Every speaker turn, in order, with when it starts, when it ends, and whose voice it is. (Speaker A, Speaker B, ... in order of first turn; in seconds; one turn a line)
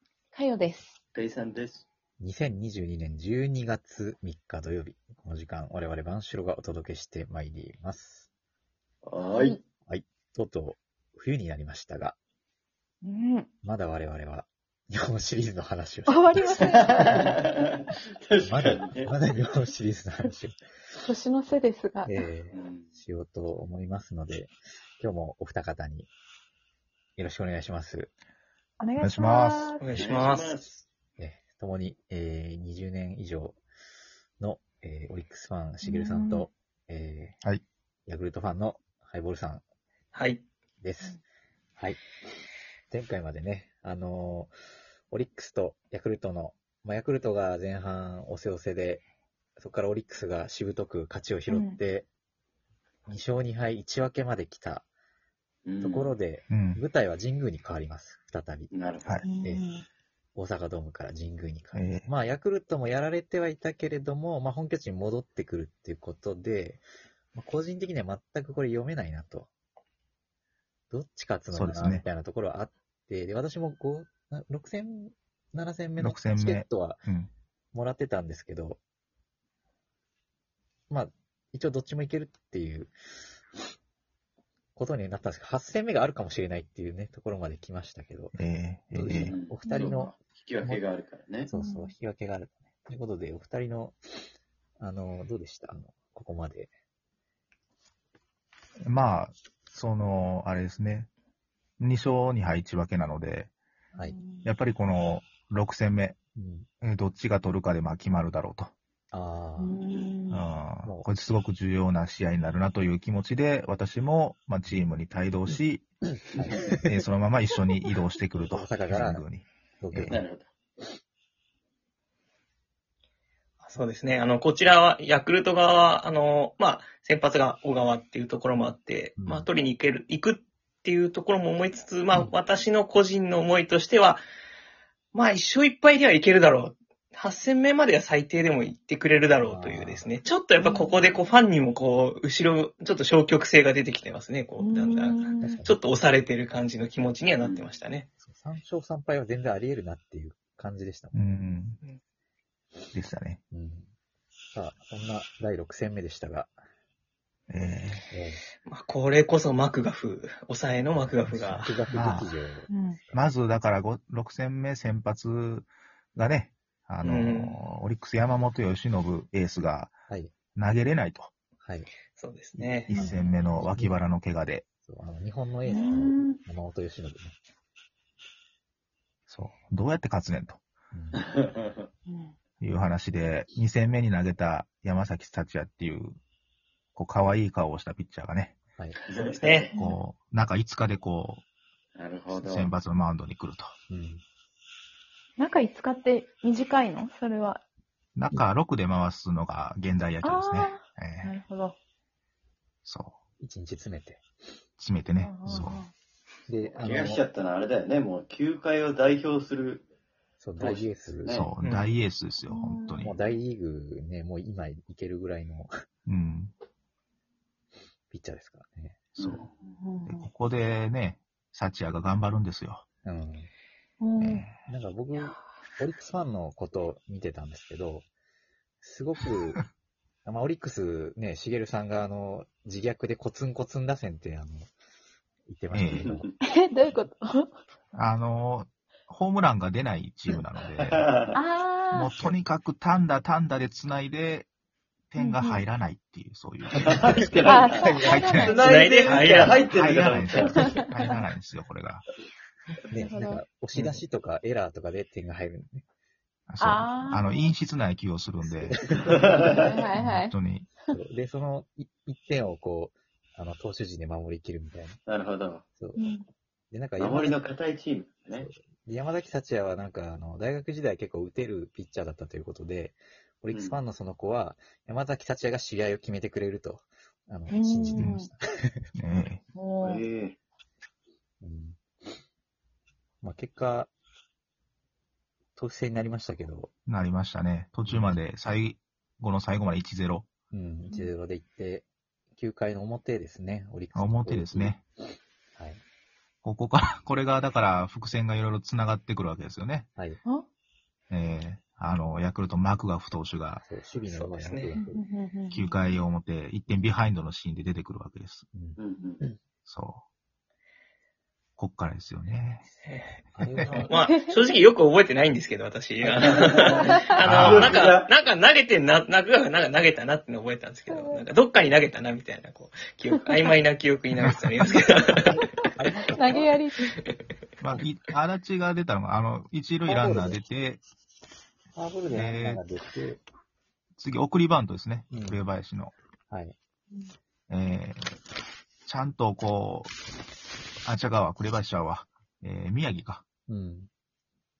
Speaker A: 0.3-1.0
Speaker B: 1.1-1.9
Speaker C: 2.2-8.3
Speaker B: 9.0-9.6
Speaker A: 9.2-9.6
Speaker C: 9.9-12.2
Speaker A: 13.0-13.5
Speaker C: 13.6-16.8
Speaker A: 16.1-17.4
Speaker B: 16.6-19.1
Speaker C: 18.4-20.6
Speaker A: 21.0-22.3
Speaker C: 22.1-26.1
Speaker B: 22.5-22.9
Speaker C: 27.2-28.1
Speaker A: 28.8-29.9
Speaker D: 29.0-29.8
Speaker E: 29.8-30.6
Speaker B: 29.9-30.8
Speaker C: 31.2-33.6
Speaker C: 34.4-37.4
Speaker A: 35.8-36.5
Speaker C: 38.0-39.6
Speaker E: 40.1-40.4
Speaker C: 40.8-41.2
Speaker C: 42.9-44.5
Speaker C: 45.1-49.0
Speaker C: 49.6-52.1
Speaker A: 51.5-51.8
Speaker C: 53.1-54.9
Speaker B: 55.6-56.1
Speaker C: 55.8-58.7
Speaker D: 56.5-56.8
Speaker B: 58.7-59.2
Speaker A: 59.2-59.8
Speaker C: 60.3-69.5
Speaker D: 61.7-62.1
Speaker C: 70.9-77.0
Speaker D: 71.5-72.0
Speaker D: 76.0-77.3
Speaker C: 77.7-78.8
Speaker C: 80.9-83.4
Speaker C: 84.7-88.3
Speaker D: 88.3-89.3
Speaker C: 88.9-90.1
Speaker B: 89.1-91.5
Speaker A: 89.6-90.1
Speaker C: 91.5-96.7
Speaker A: 91.5-91.9
Speaker D: 98.8-101.1
Speaker D: 101.8-103.5
Speaker A: 103.9-104.5
Speaker D: 104.4-106.2
Speaker C: 106.3-106.7
Speaker D: 106.8-108.7
Speaker C: 109.1-109.8
Speaker A: 109.6-110.5
Speaker D: 110.3-115.8
Speaker C: 116.3-116.8
Speaker D: 116.7-120.2
Speaker C: 118.4-119.3
Speaker C: 119.8-120.2
Speaker B: 120.1-120.5
Speaker E: 123.6-134.2
Speaker C: 129.2-129.5
Speaker E: 135.1-148.1
Speaker C: 139.3-140.1
Speaker A: 140.6-141.0
Speaker A: 144.6-145.6
Speaker C: 145.4-145.8
Speaker B: 147.4-147.7
Speaker C: 148.2-151.2
Speaker D: 151.1-151.8
Speaker D: 152.9-153.4
Speaker C: 153.5-153.9
Speaker C: 154.5-156.5
Speaker D: 157.5-158.1
Speaker C: 158.1-158.4
Speaker E: 158.6-161.8
Speaker C: 161.2-163.3
Speaker D: 161.9-162.3
Speaker A: 162.7-163.0
Speaker D: 163.1-169.9
Speaker E: 167.0-167.6
Speaker D: 170.5-171.3
Speaker C: 171.6-171.9
Speaker E: 172.1-172.9
Speaker C: 172.6-174.0
Speaker D: 172.9-174.7
Speaker A: 172.9-173.3
Speaker C: 174.8-177.3
Speaker A: 175.7-176.4
Speaker D: 179.3-180.6
Speaker C: 180.9-181.2
Speaker B: 181.3-181.7
Speaker A: 182.1-182.3
Speaker D: 182.6-186.2
Speaker D: 186.9-188.6
Speaker B: 189.0-189.7
Speaker E: 189.4-189.7
Speaker A: 189.7-190.0
Speaker D: 189.8-191.4
Speaker B: 191.9-192.7
Speaker D: 192.3-193.7
Speaker C: 193.9-194.2
Speaker A: 195.4-197.6
Speaker D: 198.1-201.3
Speaker A: 200.2-201.8
Speaker D: 202.8-203.2
Speaker C: 203.4-204.2
Speaker D: 204.8-205.8
Speaker A: 205.2-205.9
Speaker C: 205.4-205.7
Speaker C: 206.5-207.2
Speaker B: 206.7-209.8
Speaker C: 210.4-211.4
Speaker B: 210.6-211.8
Speaker D: 211.3-213.1
Speaker A: 212.5-213.1
Speaker C: 213.0-215.7
Speaker D: 216.1-216.5
Speaker C: 218.1-219.0
Speaker D: 219.1-219.4
Speaker B: 219.2-219.7
Speaker A: 219.8-220.2
Speaker D: 220.1-222.8
Speaker C: 223.0-223.5
Speaker A: 224.0-224.4
Speaker D: 224.2-224.6
Speaker C: 224.6-228.1
Speaker C: 228.8-229.6
Speaker C: 230.2-234.7
Speaker C: 235.5-236.2
Speaker D: 235.7-236.2
Speaker B: 236.0-236.3
Speaker A: 236.4-237.5
Speaker D: 237.9-241.0
Speaker B: 240.8-241.3
Speaker A: 241.3-242.2
Speaker D: 241.9-244.5
Speaker D: 245.1-248.6
Speaker A: 245.2-245.6
Speaker B: 246.9-250.6
Speaker A: 247.4-249.4
Speaker E: 248.6-249.6
Speaker D: 249.1-252.1
Speaker A: 250.5-250.8
Speaker C: 252.9-255.8
Speaker A: 252.9-253.4
Speaker D: 256.5-258.8
Speaker A: 256.6-257.5
Speaker C: 258.4-259.4
Speaker B: 259.0-259.6
Speaker A: 259.4-260.3
Speaker D: 259.9-260.7
Speaker C: 260.9-265.0
Speaker B: 265.1-265.6
Speaker A: 265.9-266.2
Speaker C: 266.7-267.4
Speaker B: 266.9-268.5
Speaker C: 268.3-278.8
Speaker B: 273.5-273.8
Speaker A: 277.5-278.3
Speaker D: 278.9-279.4
Speaker A: 279.5-280.0
Speaker B: 279.8-280.4
Speaker C: 281.4-282.2
Speaker C: 283.2-283.9
Speaker C: 285.6-286.7
Speaker D: 286.9-290.3
Speaker C: 287.9-288.2
Speaker C: 290.5-294.8
Speaker D: 293.9-294.8
Speaker C: 295.5-295.8
Speaker D: 296.4-299.9
Speaker C: 300.0-300.2
Speaker D: 301.1-303.6
Speaker C: 303.6-305.0
Speaker E: 304.0-304.7
Speaker A: 304.7-305.6
Speaker D: 305.5-308.4
Speaker C: 308.5-309.4
Speaker B: 308.8-309.2
Speaker D: 309.6-310.0
Speaker D: 311.6-312.6
Speaker E: 312.9-313.1
Speaker C: 313.3-313.9
Speaker E: 313.6-325.4
Speaker A: 313.9-314.3
Speaker B: 316.2-318.1
Speaker A: 316.9-317.2
Speaker D: 317.2-317.7
Speaker A: 320.9-321.2
Speaker D: 324.2-324.7
Speaker C: 325.7-326.5
Speaker A: 326.1-326.9
Speaker D: 327.6-330.8
Speaker C: 329.9-330.4
Speaker C: 331.7-333.2
Speaker D: 332.1-332.6
Speaker D: 334.0-335.9
Speaker C: 335.1-335.4
Speaker C: 336.3-336.6
Speaker D: 337.5-338.2
Speaker D: 338.9-339.9
Speaker D: 340.8-343.2
Speaker C: 343.5-343.9